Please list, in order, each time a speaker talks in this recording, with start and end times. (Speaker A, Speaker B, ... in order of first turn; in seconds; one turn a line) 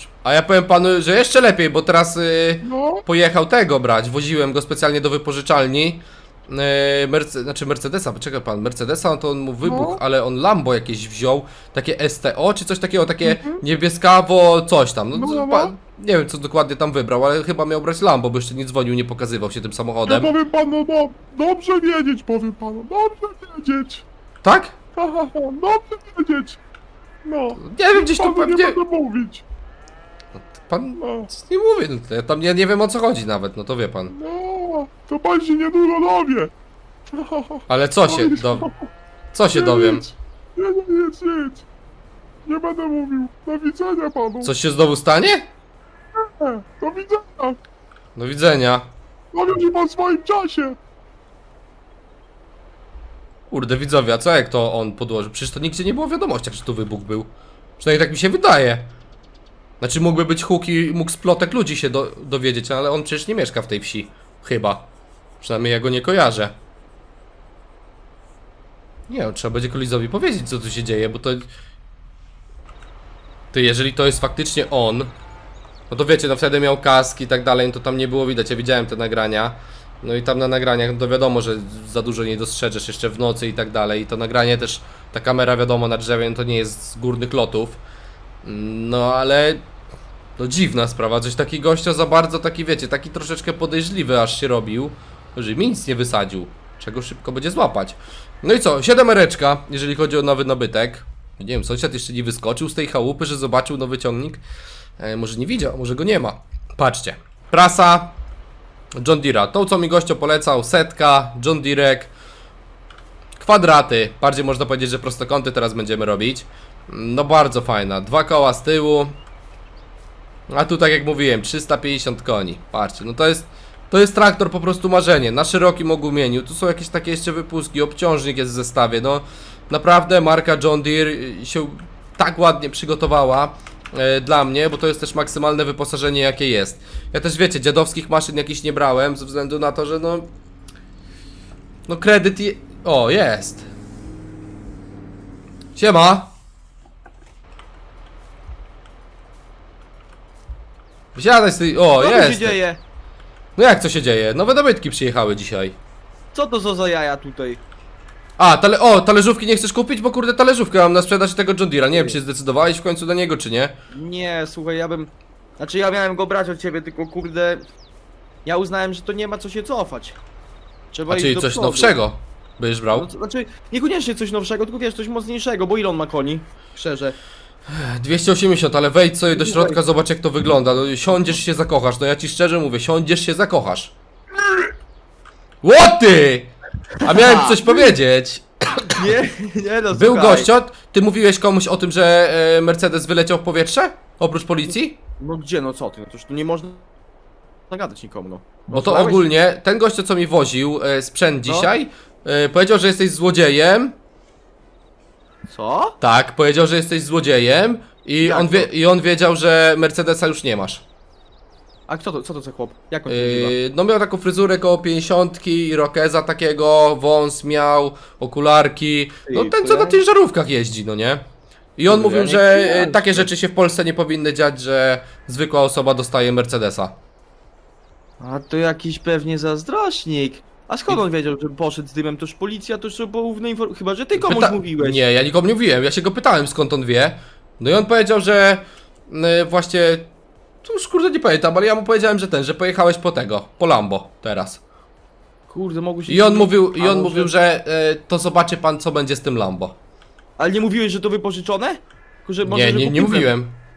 Speaker A: 0.2-20.3
Speaker B: 2.6-3.0
Speaker B: 9.6-10.0
Speaker B: 13.2-13.6
Speaker B: 15.1-15.8
Speaker B: 20.1-24.0
Speaker A: 24.4-24.8
Speaker B: 24.9-26.6
Speaker B: 27.2-29.4
Speaker A: 27.6-28.8
Speaker A: 30.5-34.1
Speaker B: 31.0-31.3
Speaker B: 34.1-36.5
Speaker B: 37.1-38.9
Speaker A: 37.7-38.7
Speaker A: 39.3-40.0
Speaker B: 39.5-41.6
Speaker B: 42.4-44.5
Speaker A: 44.4-45.5
Speaker B: 46.1-47.6
Speaker A: 48.1-48.9
Speaker B: 49.3-50.8
Speaker A: 53.5-58.9
Speaker A: 59.8-64.9
Speaker A: 65.4-66.5
Speaker A: 69.1-71.5
Speaker A: 73.5-75.1
Speaker A: 75.9-87.8
Speaker A: 88.4-89.6
Speaker A: 90.4-104.4
Speaker A: 105.0-108.2
Speaker A: 109.0-112.1
Speaker A: 113.4-119.2
Speaker A: 120.5-140.3
Speaker A: 141.9-143.7
Speaker A: 145.8-146.3
Speaker A: 151.1-152.6
Speaker C: 152.0-152.8
Speaker A: 153.6-155.8
Speaker C: 156.3-157.6
Speaker A: 158.4-163.8
Speaker C: 163.9-167.6
Speaker C: 168.4-170.2
Speaker C: 170.9-171.9
Speaker A: 171.1-173.1
Speaker C: 172.9-177.2
Speaker A: 177.7-183.9
Speaker C: 179.3-179.8
Speaker A: 185.6-188.9
Speaker C: 187.0-187.9
Speaker C: 188.9-190.5
Speaker A: 189.9-195.0
Speaker C: 195.2-196.9
Speaker C: 197.7-199.3
Speaker A: 198.7-203.9
Speaker C: 201.4-201.7
Speaker C: 205.5-206.0
Speaker A: 206.0-210.8
Speaker C: 208.2-208.7
Speaker C: 211.9-213.5
Speaker A: 213.1-221.2
Speaker C: 219.3-220.0
Speaker A: 221.8-227.0
Speaker C: 221.9-223.3
Speaker C: 228.2-235.0
Speaker A: 234.1-240.1
Speaker A: 240.6-244.6
Speaker C: 245.5-247.3
Speaker A: 246.1-249.8
Speaker C: 250.4-253.3
Speaker A: 252.4-253.6